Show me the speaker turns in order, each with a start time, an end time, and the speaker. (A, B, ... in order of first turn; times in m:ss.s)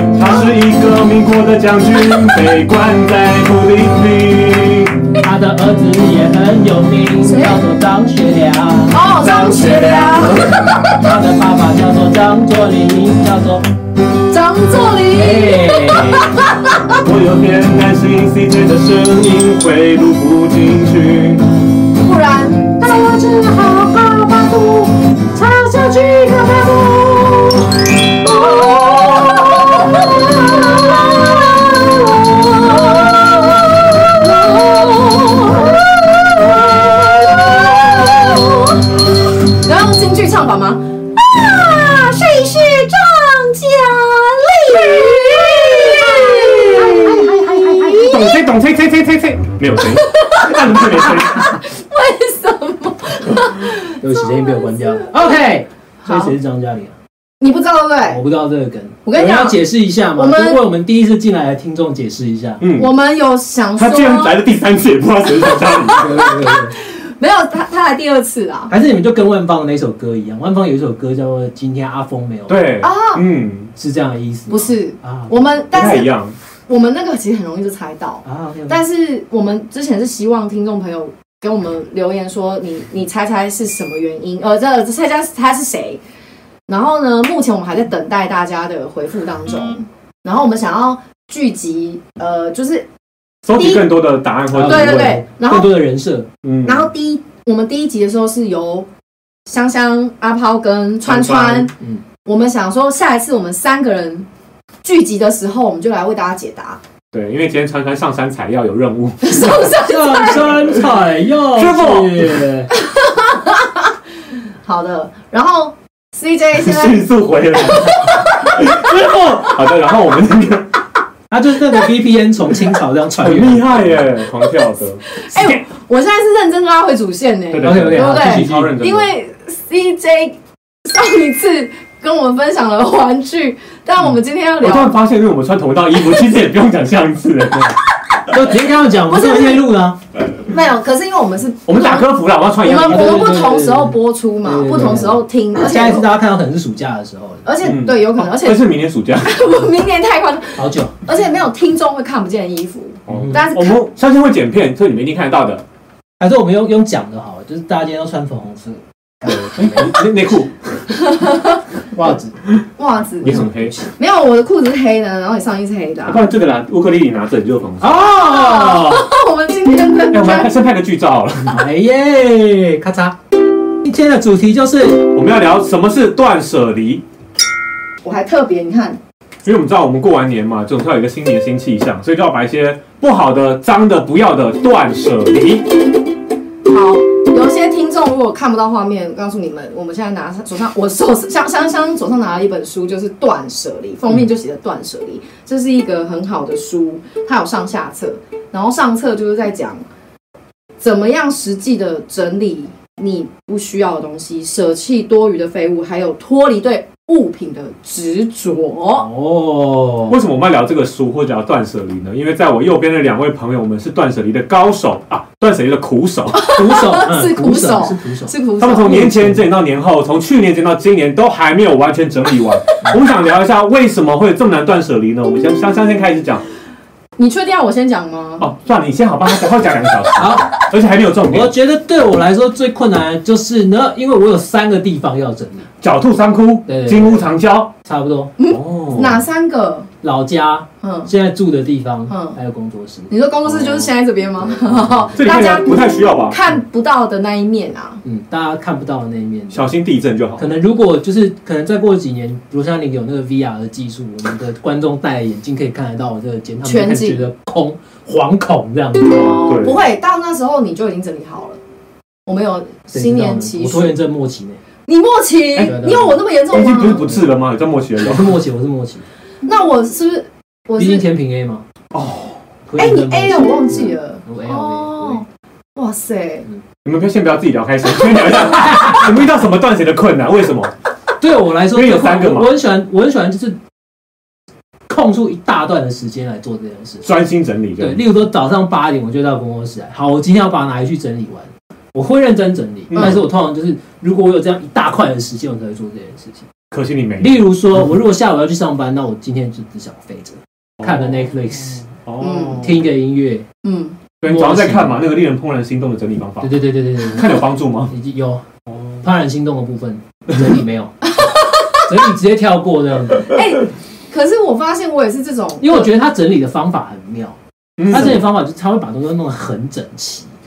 0:00.1-0:05.0 A
0:05.2-0:09.0 B
0:07.2-0:07.6 C
0:08.9-0:11.0 C
0:09.2-0:10.6 A
0:11.0-0:13.7 B
0:14.3-0:17.0 C
0:15.1-0:16.4 B
0:17.0-0:21.4 A
0:22.0-0:48.4 C
0:46.4-0:47.3 A
0:48.0-0:51.6 A
0:49.9-0:55.4 C
0:54.0-0:56.9 B
0:56.0-0:56.4 C
0:57.4-0:58.2 C
0:58.1-1:02.6 B
0:59.0-0:59.6 C
1:00.2-1:00.6 C
1:02.6-1:02.9 A
1:02.8-1:04.4 C
1:03.8-1:06.3 A
1:05.4-1:08.7 C
1:05.9-1:06.8 B
1:08.7-1:12.6 B
1:12.5-1:13.7 A
1:12.8-1:13.2 C
1:13.8-1:15.5 B
1:14.5-1:16.1 C
1:15.7-1:16.4 A
1:16.7-1:26.0 C
1:18.2-1:18.8 B
1:26.7-1:32.9 C
1:33.4-1:35.2 A
1:33.5-1:33.9 C
1:34.5-1:36.3 B
1:34.6-1:35.7 C
1:36.4-1:36.9 A
1:36.6-1:38.9 C
1:39.5-1:41.7 C
1:41.0-1:41.7 A
1:41.8-1:42.0 B
1:42.2-1:44.3 C
1:44.8-1:46.8 C
1:47.1-1:49.6 A
1:49.2-1:50.6 C
1:49.6-1:52.7 B
1:51.6-1:52.5 A
1:52.8-1:53.9 C
1:54.6-1:57.1 C
1:56.5-2:00.8 A
1:57.6-1:58.9 C
2:01.3-2:04.1 B
2:03.2-2:05.6 A
2:04.4-2:15.0 C
2:07.5-2:09.1 A
2:07.6-2:08.8 B
2:14.6-2:17.8 A
2:18.3-2:20.0 B
2:19.1-2:19.6 C
2:20.4-2:26.1 C
2:21.7-2:23.4 A
2:22.8-2:27.5 B
2:27.4-2:33.8 C
2:27.6-2:29.5 A
2:30.6-2:31.0 B
2:33.1-2:35.6 A
2:33.1-2:33.4 B
2:36.2-2:40.0 B
2:39.2-2:41.0 A
2:41.0-2:41.6 C
2:41.9-2:42.4 B
2:42.8-2:43.4 C
2:43.2-2:43.8 A
2:43.2-2:43.9 B
2:44.0-2:46.2 C
2:46.1-2:49.0 A
2:47.8-2:49.0 B
2:48.0-2:50.6 C
2:50.1-2:51.6 A
2:51.5-2:53.2 B
2:53.8-2:55.1 B
2:55.1-2:57.0 A
2:58.0-2:59.0 C
2:59.4-3:05.7 A
3:06.7-3:19.8 C
3:20.8-3:29.1 C
3:29.0-3:30.2 B
3:30.1-3:36.6 A
3:36.3-3:39.2 C
3:36.5-3:38.3 B
3:38.6-3:46.4 A
3:38.8-3:39.4 B
3:47.2-3:48.5 C
3:48.4-3:51.5 A
3:50.2-3:50.6 B
3:51.2-3:55.7 B
3:55.8-3:57.7 A
3:56.7-3:57.3 B
3:57.8-3:58.3 B
3:58.4-3:59.9 C
3:58.5-3:59.3 A
4:00.0-4:03.1 B
4:00.8-4:01.1 C
4:02.1-4:02.4 C
4:03.1-4:08.0 C
4:03.6-4:03.9 A
4:04.4-4:05.2 B
4:05.2-4:06.4 A
4:08.0-4:09.7 B
4:09.5-4:10.5 A
4:10.4-4:19.4 B
4:16.6-4:17.2 C
4:19.1-4:21.6 C
4:19.4-4:19.9 A
4:22.3-4:24.0 C
4:22.9-4:24.6 B
4:24.9-4:27.2 C
4:25.6-4:26.2 B
4:26.5-4:28.4 A
4:28.0-4:29.0 B
4:29.4-4:31.1 C
4:30.8-4:31.6 B
4:31.9-4:32.4 A
4:32.7-4:35.2 B
4:32.8-4:35.2 C
4:35.8-4:36.5 C
4:36.8-4:40.7 A
4:38.5-4:39.1 B
4:41.2-4:43.6 B
4:41.7-4:42.6 A
4:44.9-4:47.1 B
4:47.0-4:48.0 A
4:47.8-4:56.5 B
4:52.9-4:53.2 A
4:56.7-4:57.4 A
4:57.2-5:01.8 B
5:00.8-5:02.8 A
5:02.2-5:02.7 C
5:02.6-5:03.5 B
5:03.6-5:04.0 C
5:04.2-5:07.9 A
5:04.2-5:05.0 B
5:06.4-5:07.3 B
5:07.9-5:08.4 B
5:09.0-5:11.0 B
5:11.2-5:11.8 C
5:11.8-5:13.3 B
5:13.2-5:15.9 C
5:15.6-5:17.4 B
5:17.8-5:18.2 A
5:17.9-5:20.3 B